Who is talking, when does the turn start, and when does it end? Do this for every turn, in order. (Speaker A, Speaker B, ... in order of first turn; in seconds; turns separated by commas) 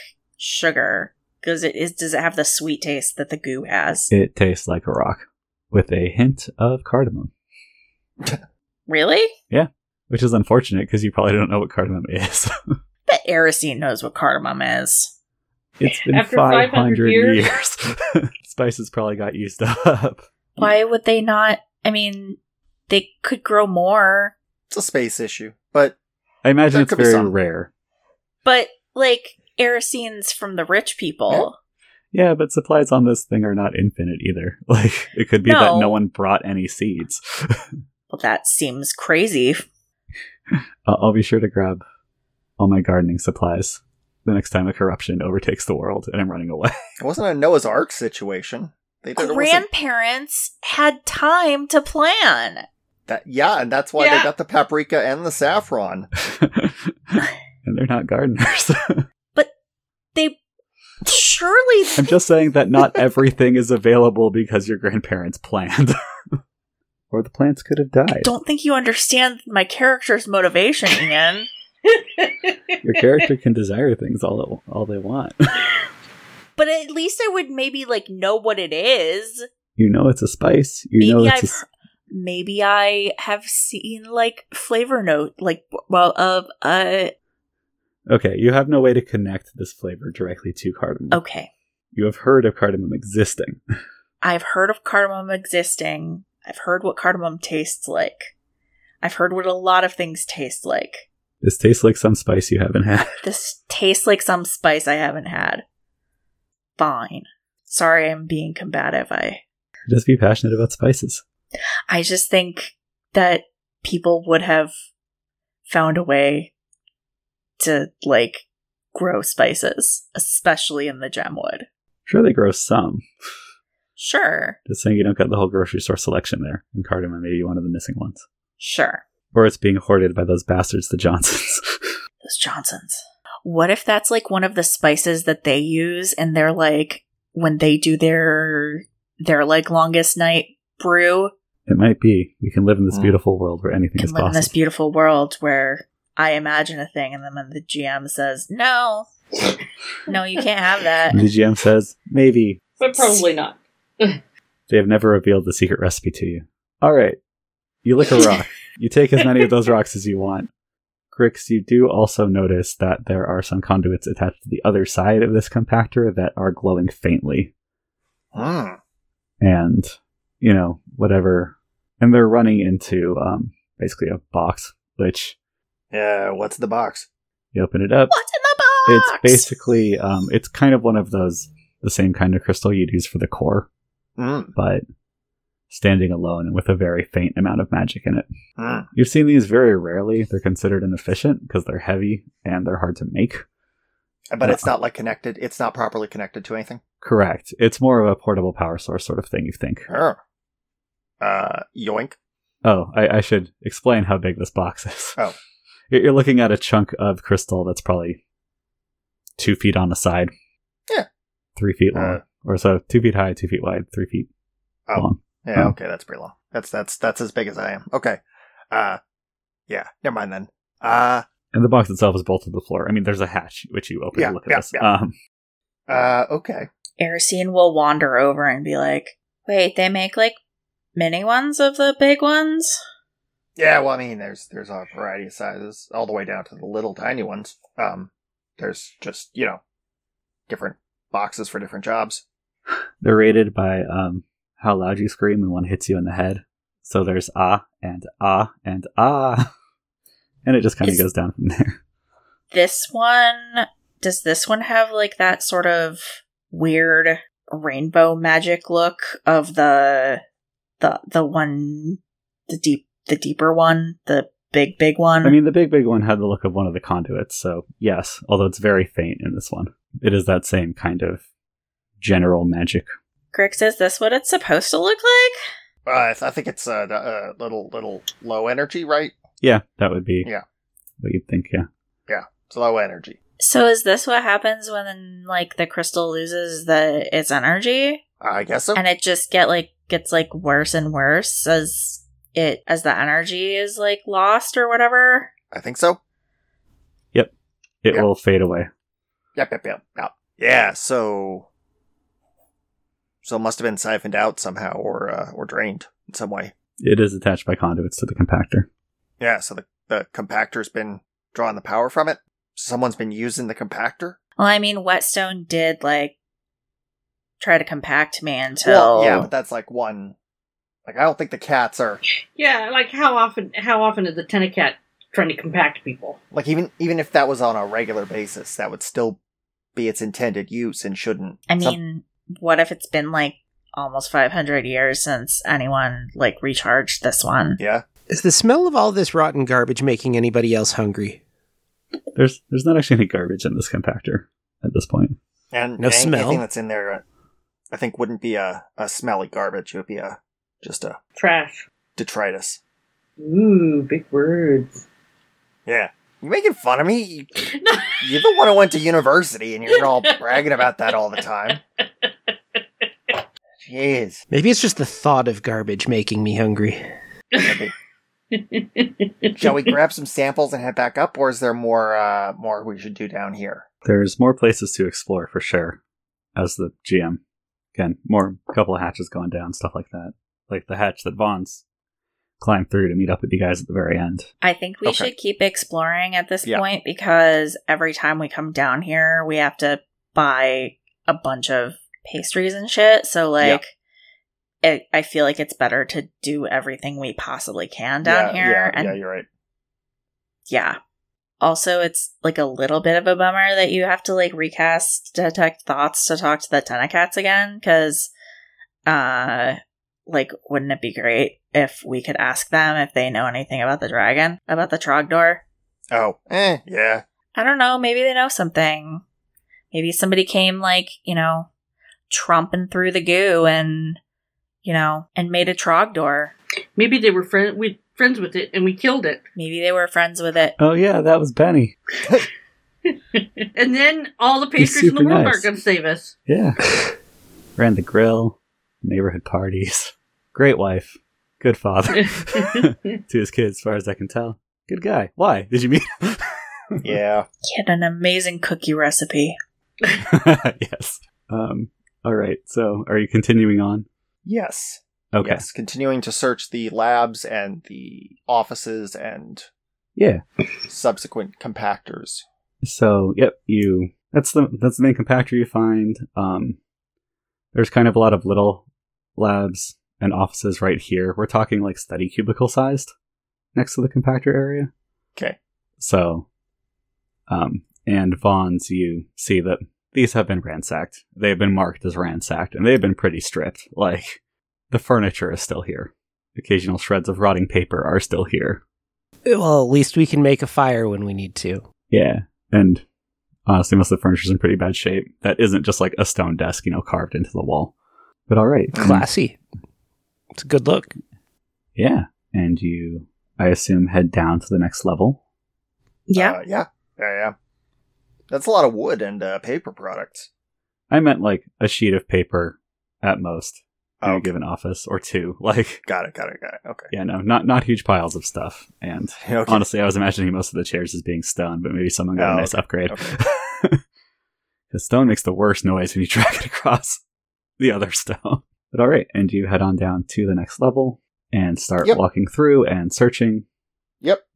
Speaker A: 0.4-4.1, Speaker B: 4.1-7.3, Speaker A: 8.9-9.3, Speaker B: 9.5-12.5, Speaker A: 13.1-15.1, Speaker B: 15.8-20.7, Speaker C: 16.0-17.4, Speaker A: 20.6-24.3, Speaker D: 24.7-26.0, Speaker B: 26.4-27.7, Speaker D: 26.7-27.3, Speaker A: 28.4-31.5, Speaker B: 32.1-37.6, Speaker A: 35.4-36.0, Speaker A: 38.1-39.6, Speaker B: 40.5-41.8, Speaker B: 42.6-46.8, Speaker D: 47.0-49.6, Speaker A: 49.2-52.6, Speaker D: 53.1-56.1, Speaker C: 54.0-54.3, Speaker B: 56.2-59.0, Speaker A: 61.0-62.1, Speaker B: 62.0-65.9, Speaker B: 67.1-68.3, Speaker A: 68.1-71.5, Speaker C: 72.0-72.5, Speaker B: 72.8-75.7, Speaker A: 76.6-79.5, Speaker B: 79.8-81.5, Speaker A: 81.0-87.1, Speaker B: 88.1-91.2, Speaker A: 91.1-91.5, Speaker B: 91.9-93.6, Speaker A: 94.2-98.3, Speaker A: 99.0-101.1, Speaker B: 101.4-103.2, Speaker A: 103.2-105.6, Speaker A: 106.8-109.4, Speaker B: 109.9-111.2, Speaker A: 111.9-114.7, Speaker A: 115.7-116.5, Speaker A: 117.6-121.7, Speaker B: 122.1-123.0, Speaker A: 124.0-124.6, Speaker B: 124.7-128.2, Speaker A: 128.6-129.0, Speaker B: 129.3-131.6, Speaker A: 132.2-141.3, Speaker B: 141.7-144.5, Speaker A: 144.0-149.1, Speaker A: 150.1-151.2, Speaker B: 151.1-152.6, Speaker C: 152.8-154.2, Speaker B: 154.7-157.2, Speaker B: 157.8-160.5, Speaker B: 161.1-167.5, Speaker D: 168.3-168.8, Speaker B: 169.4-175.3, Speaker D: 175.9-177.1, Speaker B: 177.5-178.1, Speaker A: 178.1-179.5, Speaker B: 178.9-183.7, Speaker D: 184.2-184.5, Speaker B: 184.5-184.8, Speaker B: 185.7-188.2, Speaker D: 188.6-188.9, Speaker B: 188.9-193.4, Speaker D: 194.3-196.8, Speaker B: 194.4-194.7, Speaker B: 197.0-199.9, Speaker D: 199.9-200.2, Speaker D: 201.2-202.2, Speaker B: 202.6-205.2, Speaker B: 205.9-208.2, Speaker B: 209.4-210.3, Speaker B: 211.6-214.3, Speaker D: 211.9-212.2, Speaker D: 214.9-218.2, Speaker B: 214.9-215.7, Speaker D: 218.7-219.0, Speaker D: 219.7-221.2, Speaker B: 221.5-225.1, Speaker D: 224.1-224.8, Speaker D: 225.9-226.7, Speaker A: 227.0-230.4, Speaker A: 230.9-232.8, Speaker D: 233.6-239.6, Speaker D: 240.5-242.2, Speaker B: 243.0-249.5, Speaker B: 250.4-251.8, Speaker A: 252.5-260.2, Speaker A: 260.8-265.4, Speaker B: 265.2-271.2, Speaker B: 272.0-272.9, Speaker A: 273.3-275.4, Speaker D: 275.9-279.2, Speaker B: 279.4-280.3, Speaker B: 281.0-281.7, Speaker D: 282.1-283.2, Speaker A: 283.4-288.0, Speaker D: 288.2-288.8, Speaker A: 288.8-295.3, Speaker D: 295.5-296.0, Speaker B: 297.8-298.7, Speaker D: 299.4-301.5, Speaker D: 303.2-306.5, Speaker B: 306.8-308.7, Speaker D: 309.2-314.2, Speaker A: 314.4-316.1, Speaker A: 317.4-319.3, Speaker D: 318.6-320.1, Speaker D: 320.9-322.0, Speaker C: 322.3-326.2, Speaker D: 326.3-329.2, Speaker D: 329.7-331.8, Speaker A: 331.5-337.6, Speaker D: 337.6-337.8, Speaker E: 338.1-341.2, Speaker B: 342.1-345.1, Speaker D: 345.5-347.0, Speaker E: 345.8-346.4, Speaker D: 347.7-351.0, Speaker C: 351.1-351.6, Speaker D: 351.9-352.6, Speaker C: 353.2-354.7, Speaker D: 355.6-361.6, Speaker C: 357.5-358.3, Speaker C: 359.7-360.9, Speaker C: 362.0-362.6, Speaker D: 363.6-364.2, Speaker E: 364.3-366.8, Speaker C: 367.3-367.6, Speaker D: 367.4-367.7, Speaker C: 368.3-369.7, Speaker D: 369.4-373.6, Speaker B: 373.8-375.8, Speaker B: 376.4-377.2, Speaker B: 377.7-381.6, Speaker B: 382.4-384.3, Speaker A: 384.4-393.7, Speaker D: 384.8-385.1, Speaker A: 394.6-399.0, Speaker D: 398.0-399.2, Speaker A: 400.5-400.8, Speaker A: 401.4-408.1, Speaker A: 408.9-415.4, Speaker D: 415.9-417.0, Speaker A: 417.4-419.0, Speaker A: 419.7-421.5, Speaker A: 422.1-424.0, Speaker A: 424.6-426.3, Speaker C: 426.7-429.2, Speaker A: 429.3-430.6, Speaker B: 430.6-431.8, Speaker C: 432.9-436.1, Speaker B: 434.6-435.5, Speaker B: 436.3-436.7, Speaker B: 437.6-446.9, Speaker C: 442.0-442.9, Speaker D: 446.8-447.3, Speaker A: 447.5-449.4, Speaker B: 450.0-453.9, Speaker D: 454.2-459.5, Speaker B: 455.1-455.4, Speaker B: 459.9-460.2, Speaker D: 460.7-462.2, Speaker B: 462.6-466.6, Speaker B: 467.5-468.6, Speaker B: 469.1-472.9, Speaker B: 473.5-474.7, Speaker B: 475.8-476.3, Speaker B: 477.3-484.2, Speaker B: 484.7-488.6, Speaker E: 489.2-491.7, Speaker B: 491.9-492.8, Speaker B: 493.4-497.7, Speaker B: 498.3-499.0, Speaker D: 498.7-499.0, Speaker E: 498.8-499.4, Speaker E: 500.3-500.9, Speaker B: 501.8-505.2, Speaker A: 506.1-506.4, Speaker D: 506.1-507.3, Speaker D: 508.3-510.3, Speaker B: 510.9-515.8, Speaker D: 514.0-514.3, Speaker D: 515.9-516.9, Speaker B: 516.9-523.8, Speaker D: 519.2-519.6, Speaker D: 522.2-523.1, Speaker B: 524.7-527.0, Speaker B: 527.6-533.4